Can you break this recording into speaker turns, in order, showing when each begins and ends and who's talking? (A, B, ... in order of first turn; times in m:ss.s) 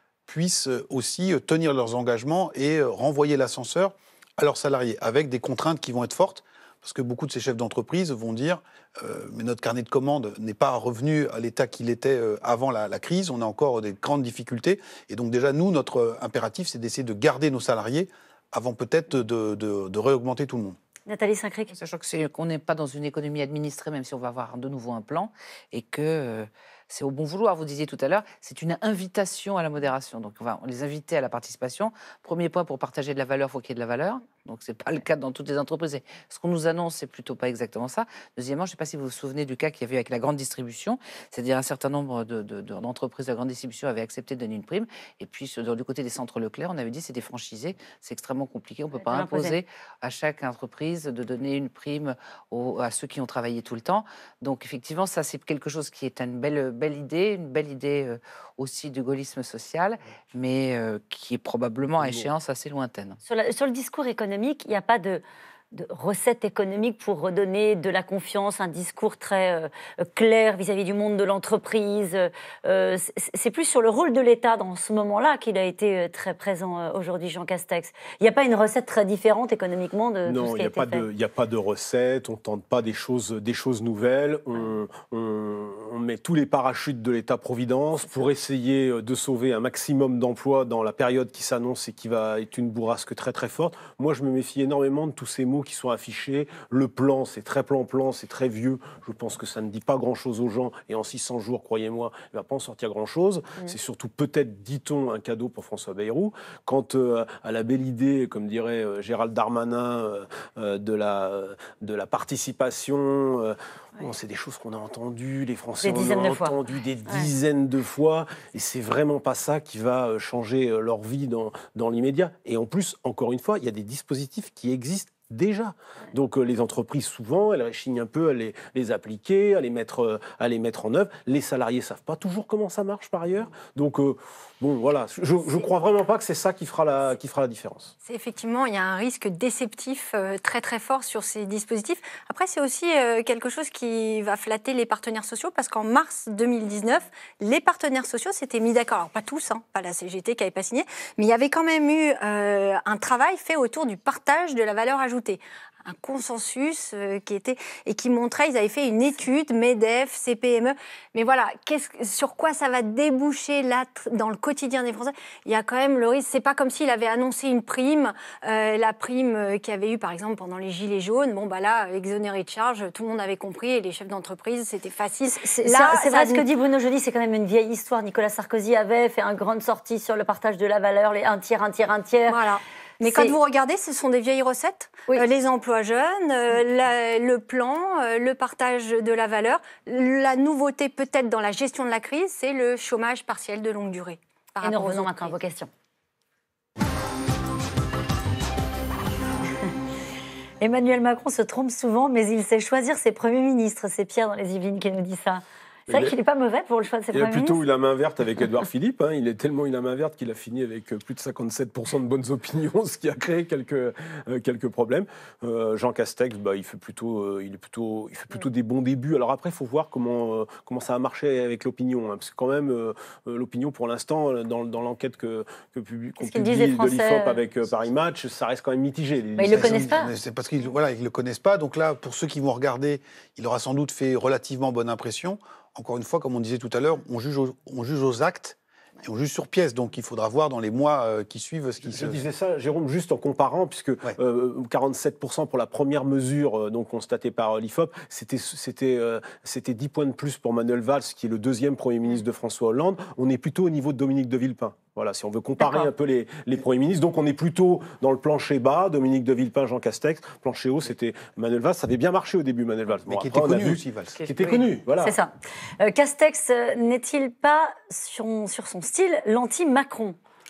0:00.3-0:20.8 A
0:21.1-0:21.7 B
0:21.7-1:03.2 C
0:49.0-0:49.6 B
1:02.0-1:02.3 D
1:03.2-1:21.1 B
1:20.3-2:17.9 D
1:55.8-1:57.3 B
2:18.0-2:56.5 E
2:55.4-3:02.4 B
3:02.3-3:15.4 E
3:03.0-3:03.4 B
3:14.6-3:15.7 B
3:20.6-3:27.6 B
3:25.9-3:26.2 D
3:27.1-3:49.9 D
3:46.2-3:47.4 B
3:49.4-3:50.1 B
3:49.5-4:02.2 A
4:01.8-4:25.2 D
4:15.6-4:15.9 B
4:23.1-4:24.2 A
4:25.0-4:30.2 B